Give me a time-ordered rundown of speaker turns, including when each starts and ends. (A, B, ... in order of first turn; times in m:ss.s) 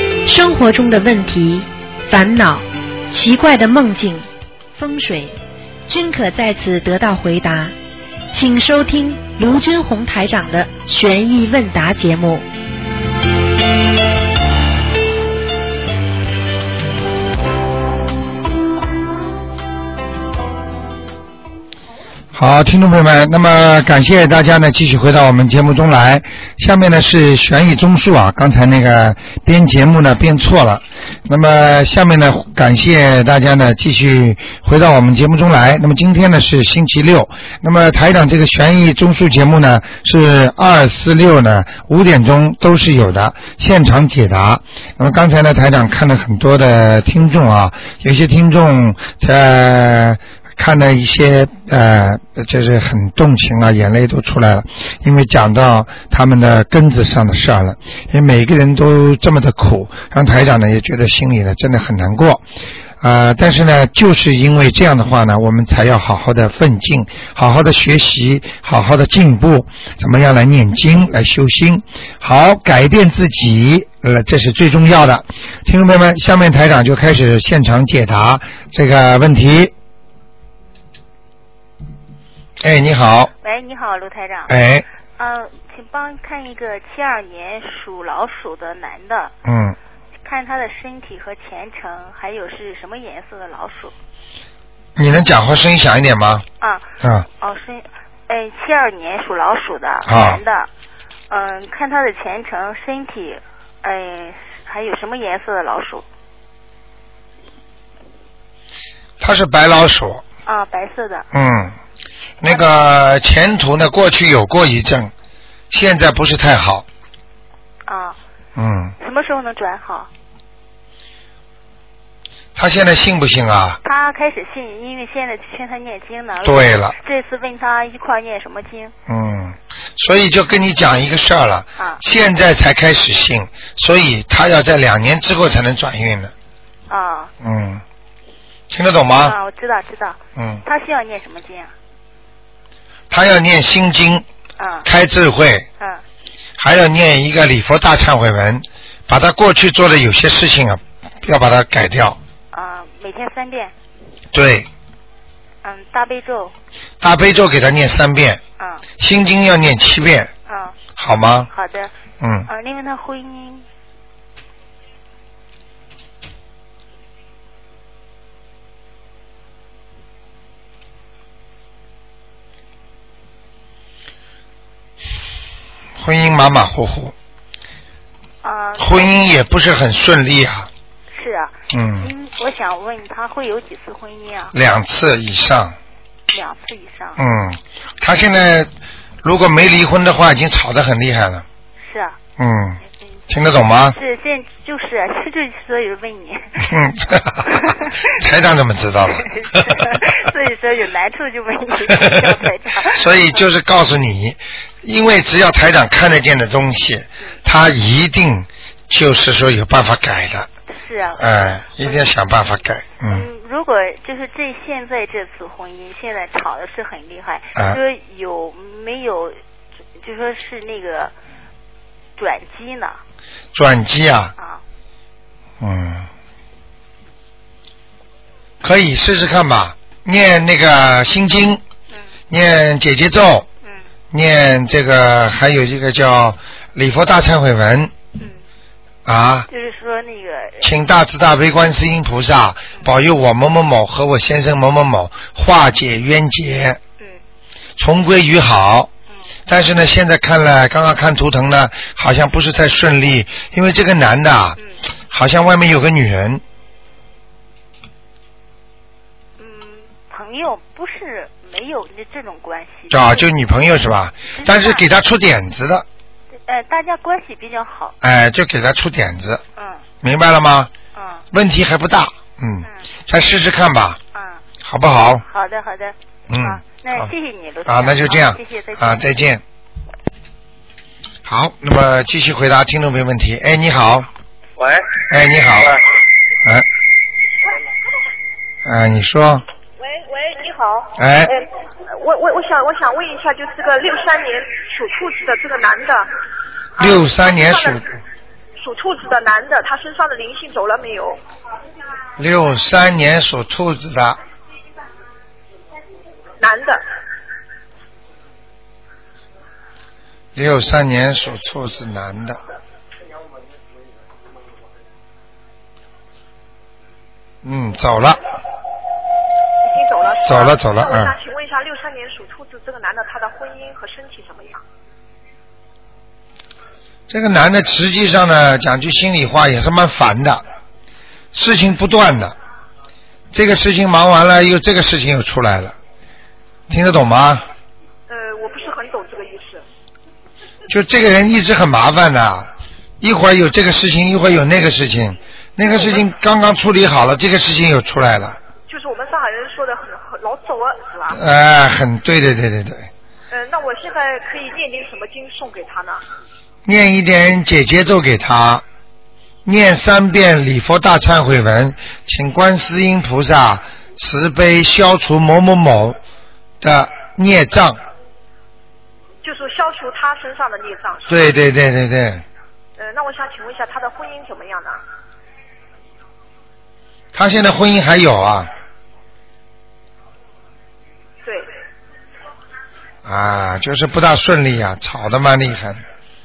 0:00.2-0:05.3 A
0:05.9-0:07.7 A
0:08.3-0:12.4 A
0:22.3-1:02.4 B
1:03.0-1:19.7 B
1:22.6-1:23.3 B
1:23.4-1:24.5 C
1:24.5-1:24.8 B
1:25.2-1:29.3 C
1:29.4-1:29.8 B
1:30.2-1:33.9 C
1:35.0-1:36.4 B
1:36.6-1:36.8 C
1:37.4-1:40.7 C
1:40.0-1:40.4 B
1:41.3-1:46.0 C
1:49.2-1:50.2 B
1:50.4-1:51.3 C
1:51.3-1:51.7 B
1:52.4-1:55.1 B
1:55.7-1:56.8 B
1:57.9-1:58.2 C
1:58.6-1:58.9 B
1:59.0-2:00.1 C
2:02.6-2:03.8 B
2:03.8-2:08.9 C
2:06.4-2:07.0 B
2:09.1-2:16.3 B
2:16.9-2:17.3 C
2:17.4-2:17.8 B
2:18.7-2:19.4 B
2:19.1-2:21.7 C
2:20.4-2:20.6 B
2:23.1-2:24.2 B
2:24.6-2:24.9 C
2:24.8-2:25.7 B
2:26.6-2:32.2 B
2:32.5-2:33.7 C
2:34.3-2:34.7 B
2:35.6-2:36.5 C
2:37.0-2:38.4 B
2:39.0-2:40.3 B
2:40.5-2:40.8 C
2:41.0-2:41.5 B
2:41.5-2:41.9 C
2:42.2-2:42.5 B
2:42.5-2:43.6 C
2:56.0-2:57.1 B
2:58.4-2:59.4 C
2:58.8-3:00.7 B
3:01.1-3:04.6 C
3:01.7-3:02.1 B
3:04.5-3:05.7 B
3:06.3-3:07.2 C
3:07.2-3:08.7 B
3:09.2-3:11.4 B
3:11.8-3:12.2 C
3:12.4-3:14.0 B
3:13.8-3:16.7 C
3:16.6-3:20.0 B
3:17.5-3:18.1 C
3:19.1-3:23.4 C
3:21.9-3:22.4 B
3:22.9-3:30.5 B
3:30.7-3:32.0 C
3:31.2-3:33.2 B
3:33.0-3:39.4 C
3:37.5-3:37.8 B
3:40.0-3:41.1 C
3:42.2-3:43.0 C
3:43.5-3:44.3 B
3:45.6-3:46.1 B
3:48.6-3:51.6 B
3:52.3-3:53.5 B
3:54.1-3:57.9 B
3:59.0-3:59.4 B
3:59.5-4:00.7 C
4:00.6-4:06.8 B
4:07.8-4:08.9 B
4:09.5-4:14.6 B
4:15.1-4:16.4 B
4:19.4-4:23.2 C
4:22.9-4:25.8 B
4:24.3-4:24.8 C
4:26.5-4:27.9 C
4:28.0-4:29.4 B
4:29.6-4:29.8 C
4:30.0-4:30.7 B
4:30.9-4:31.2 C
4:31.3-4:34.0 B
4:34.1-4:34.4 C
4:34.6-4:35.2 B
4:35.2-4:39.1 C
4:36.3-4:37.1 B
4:37.6-4:39.4 B
4:41.2-4:44.1 B
4:45.1-4:45.8 B
4:48.6-4:49.4 B
4:49.8-4:56.1 D
4:51.0-4:51.3 B
4:56.8-4:57.9 D
4:56.8-4:57.9 B
4:58.6-5:01.2 D
5:02.2-5:04.2 B
5:06.4-5:06.8 D
5:10.4-5:12.4 B
5:17.4-5:18.2 B
5:19.6-5:24.6 D
5:20.2-5:21.2 B
5:27.1-5:30.4 B
5:31.3-5:32.3 B
5:33.3-5:35.7 B
5:36.7-5:37.4 B
5:38.1-5:39.6 D
5:40.7-5:42.5 B
5:43.0-5:48.4 B
5:48.7-5:51.2 D
5:51.1-5:52.9 B
5:53.3-5:56.0 D
5:56.6-5:58.6 B
5:59.4-6:06.0 B
6:06.6-6:07.8 B
6:09.2-6:11.2 D
6:11.1-6:12.2 B
6:12.8-6:14.8 D
6:17.1-6:18.5 B
6:23.0-6:25.8 B